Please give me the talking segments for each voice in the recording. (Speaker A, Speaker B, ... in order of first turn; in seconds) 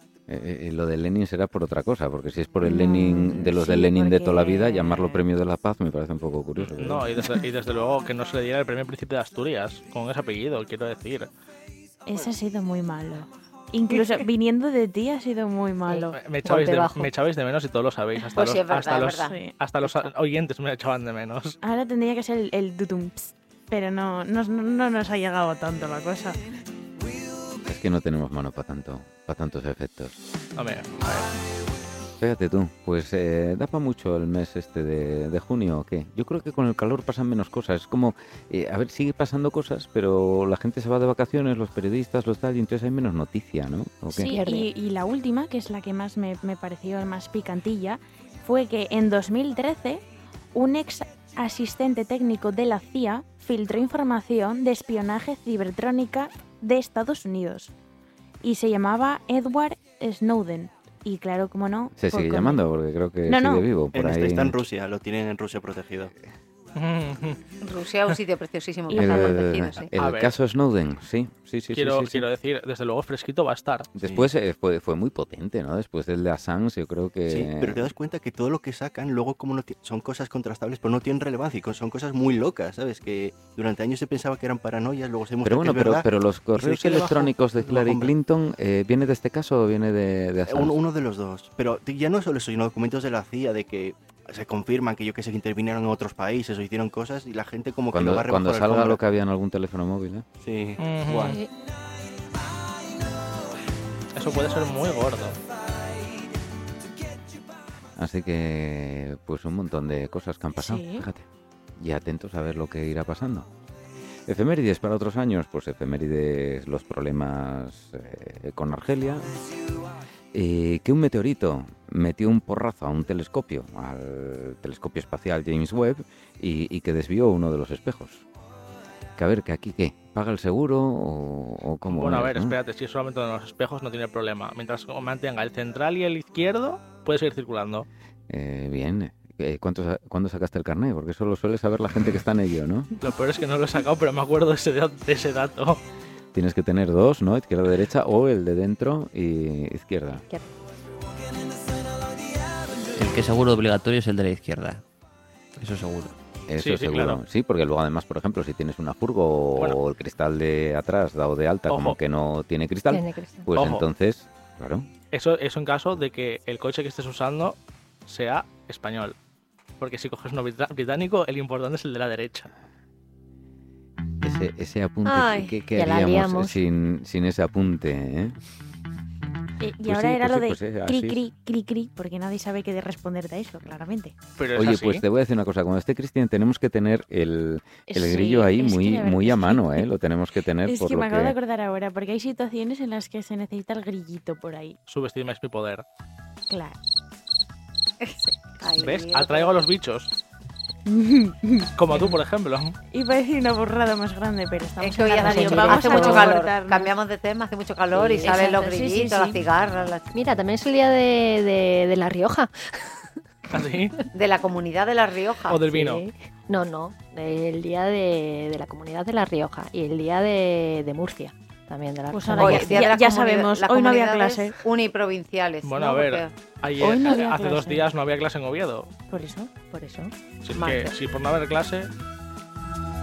Speaker A: 0.3-7.3, 27.6-30.2, 32.2-44.4, 62.0-64.6, 68.9-72.3, 74.0-77.9, 85.4-90.8, 97.9-100.3, 108.0-113.5, 114.3-119.3, 120.3-128.2, 129.2-132.6, 138.3-142.9, 146.3-150.2, 156.5-164.9, 174.2-178.4, 179.8-181.2, 184.6-191.4
Speaker B: 2.6-5.1, 12.1-16.2, 19.2-19.5, 21.6-26.4, 44.1-57.7, 58.4-62.6, 63.3-63.7, 68.9-69.5, 110.6-111.1, 179.6-184.2, 187.9-189.9, 190.7-194.8, 196.5-196.8, 200.9-202.2, 202.9-206.9, 208.2-209.4, 222.1-224.6, 226.8-227.9, 229.1-229.5
Speaker C: 6.6-11.3, 16.1-21.6, 30.6-31.3, 66.7-67.4, 69.9-70.3, 71.7-73.9, 100.8-101.3, 104.1-105.4, 131.9-137.9, 143.0-145.8, 156.6-157.2, 161.7-162.0, 163.5-163.9, 165.1-169.2, 169.8-172.5, 184.4-185.0, 194.9-195.8, 198.8-200.1, 201.8-202.8, 213.5-214.0, 215.5-216.0, 225.6-228.9, 230.4-231.9
Speaker D: 15.9-17.1, 44.2-44.7, 101.2-101.5, 162.9-163.5, 175.7-176.6, 205.2-206.4, 207.9-208.6, 210.1-212.9, 215.7-222.9, 229.3-230.1
Speaker E: 18.4-19.5, 67.6-69.9, 175.1-175.6, 198.0-199.6, 204.8-210.1, 214.1-215.6, 222.4-226.3, 230.6-230.9
Speaker F: 63.9-66.1, 74.0-74.3, 77.3-88.1, 90.5-99.0, 100.4-101.4
Speaker G: 152.9-154.8, 155.6-156.1